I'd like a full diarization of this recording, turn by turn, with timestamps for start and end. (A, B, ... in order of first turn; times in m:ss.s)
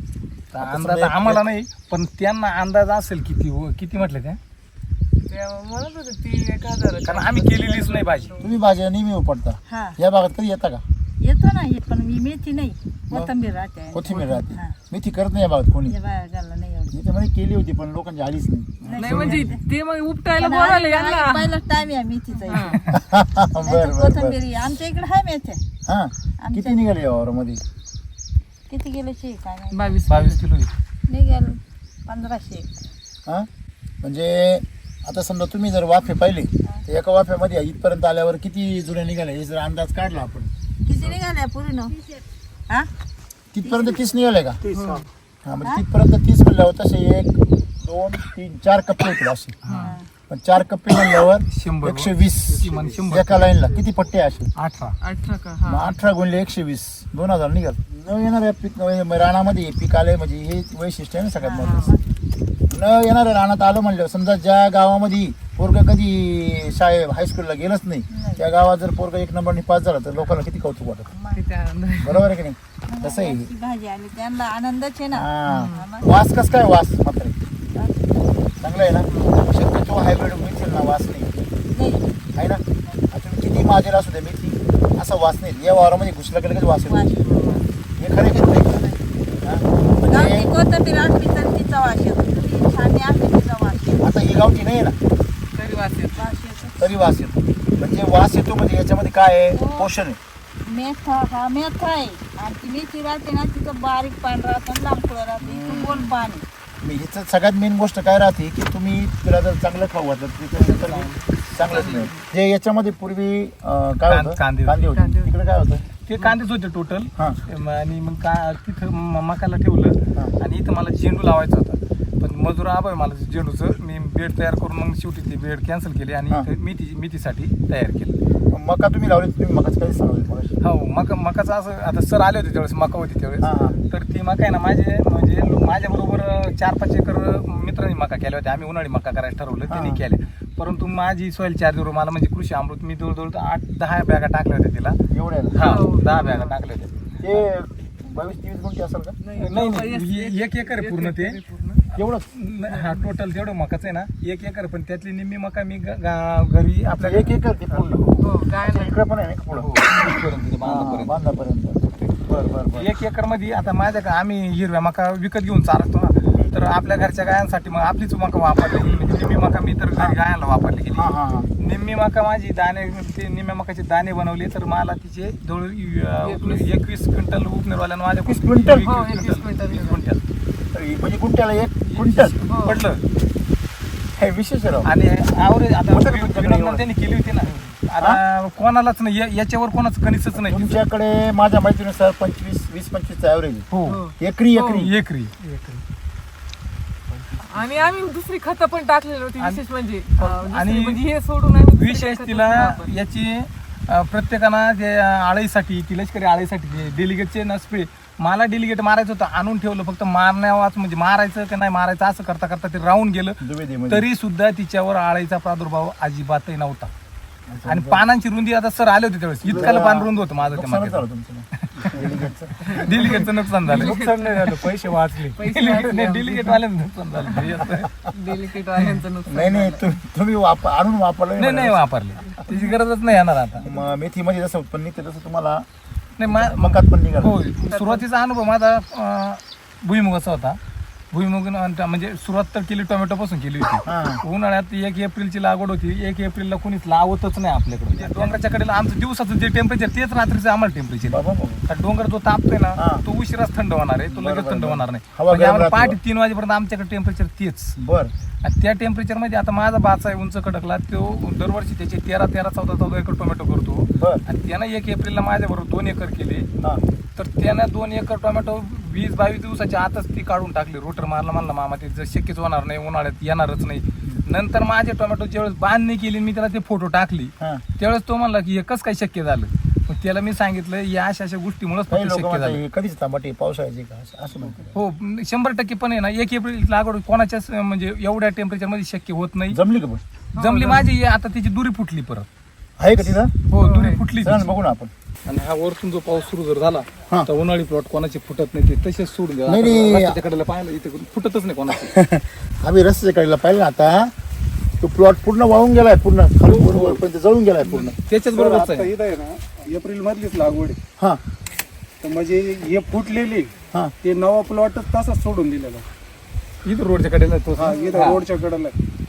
0:00.5-0:04.4 A
0:00.6-0:01.4 B
0:05.3-0:08.5 C
0:07.0-0:08.4 A
0:08.4-0:10.8 B
0:09.7-0:10.0 D
0:11.2-0:14.7 D
0:13.9-0:16.0 B
0:15.9-0:16.9 D
0:16.9-0:19.5 B
0:18.8-0:19.6 D
0:18.9-0:21.5 C
0:20.3-0:22.9 D
0:22.4-0:22.8 C
0:22.9-0:24.4 B
0:23.6-0:25.6 D
0:25.8-0:27.6 B
0:26.4-0:26.8 D
0:28.7-0:30.0 D
0:29.7-0:30.4 C
0:30.1-0:30.7 A
0:31.1-0:32.8 D
0:34.0-0:41.1 B
0:40.8-0:42.9 D
0:43.5-0:44.6 B
0:43.6-0:44.1 D
0:44.6-0:45.0 E
0:44.8-0:45.0 C
0:45.4-0:49.6 B
0:49.6-0:49.9 A
0:49.7-0:50.0 D
0:50.3-0:54.5 B
0:51.5-0:53.7 A
0:54.6-0:54.9 A
0:55.0-0:55.9 C
0:55.6-1:02.0 B
1:01.4-1:02.0 D
1:01.6-1:02.0 C
1:02.7-1:11.1 B
1:08.1-1:08.4 D
1:11.2-1:11.4 D
1:11.3-1:12.2 C
1:12.0-1:13.5 B
1:12.9-1:16.2 D
1:15.1-1:17.4 B
1:15.5-1:16.0 C
1:17.7-1:18.4 D
1:18.6-1:21.4 B
1:19.1-1:19.4 C
1:21.7-1:22.2 D
1:22.3-1:27.2 B
1:26.8-1:27.6 D
1:27.2-1:27.6 C
1:28.0-1:28.8 B
1:28.3-1:29.0 D
1:29.4-1:30.5 B
1:29.9-1:34.1 D
1:34.0-1:35.0 B
1:35.5-1:36.3 C
1:36.1-1:37.0 D
1:36.8-1:40.2 B
1:39.5-1:39.9 D
1:40.6-1:46.4 D
1:45.4-1:46.1 B
1:46.8-1:55.8 B
1:50.6-1:51.2 A
1:51.6-1:52.2 C
1:54.1-1:55.1 A
1:55.0-1:55.2 C
1:56.0-2:08.2 A
2:08.5-2:10.6 B
2:10.6-2:25.0 A
2:13.4-2:13.8 B
2:19.7-2:20.0 B
2:25.1-2:25.8 B
2:25.5-2:27.3 A
2:25.6-2:26.5 C
2:27.2-2:29.2 B
2:29.2-2:31.8 C
2:29.3-2:31.4 A
2:32.0-2:32.2 B
2:32.0-2:38.1 A
2:32.7-2:33.0 C
2:37.0-2:38.0 B
2:38.2-2:38.9 C
2:38.6-2:40.1 B
2:39.5-2:41.1 A
2:40.6-2:42.9 B
2:42.7-3:00.2 A
2:50.9-2:51.5 B
2:56.2-2:56.7 C
2:58.2-2:58.9 B
2:58.8-3:00.0 C
3:00.7-3:02.4 B
3:01.9-3:03.0 A
3:02.4-3:02.8 C
3:04.2-3:04.9 B
3:04.8-3:10.8 A
3:05.9-3:06.8 B
3:10.5-3:13.7 B
3:13.7-3:14.0 A
3:13.8-3:14.9 C
3:14.2-3:14.9 B
3:14.7-3:15.8 A
3:17.4-3:22.9 C
3:20.2-3:21.0 A
3:21.7-3:36.9 A
3:33.4-3:34.1 B
3:37.5-3:38.0 B
3:37.7-3:41.0 A
3:39.4-3:43.1 B
3:41.6-3:42.0 A
3:42.6-3:44.6 C
3:42.6-3:47.9 A
3:45.3-3:46.6 C
3:48.1-3:49.9 C
3:49.3-3:51.8 B
3:51.4-3:53.7 A
3:53.6-3:55.6 B
3:56.2-4:00.6 A
3:56.2-3:57.4 B
3:57.7-3:58.0 C
4:01.1-4:17.8 A
4:03.8-4:04.2 B
4:08.0-4:08.3 B
4:11.0-4:11.6 B
4:12.8-4:13.0 B
4:14.1-4:16.0 B
4:17.8-4:18.1 B
4:18.4-4:26.5 A
4:24.0-4:24.2 B
4:27.2-4:42.6 A
4:41.9-4:44.8 B
4:44.6-4:49.6 A
4:49.5-4:50.0 B
4:50.3-4:50.9 C
4:50.4-4:52.3 A
4:52.8-4:53.3 B
4:53.1-4:54.5 A
4:53.6-4:54.0 C
4:54.2-4:54.9 B
4:55.2-5:02.0 A
4:59.5-5:00.2 B
5:01.8-5:04.1 B
5:04.8-5:08.0 B
5:06.4-5:07.0 A
5:07.6-5:08.9 A
5:08.3-5:10.8 E
5:12.0-5:15.8 E
5:16.6-5:18.2 A
5:17.5-5:18.7 E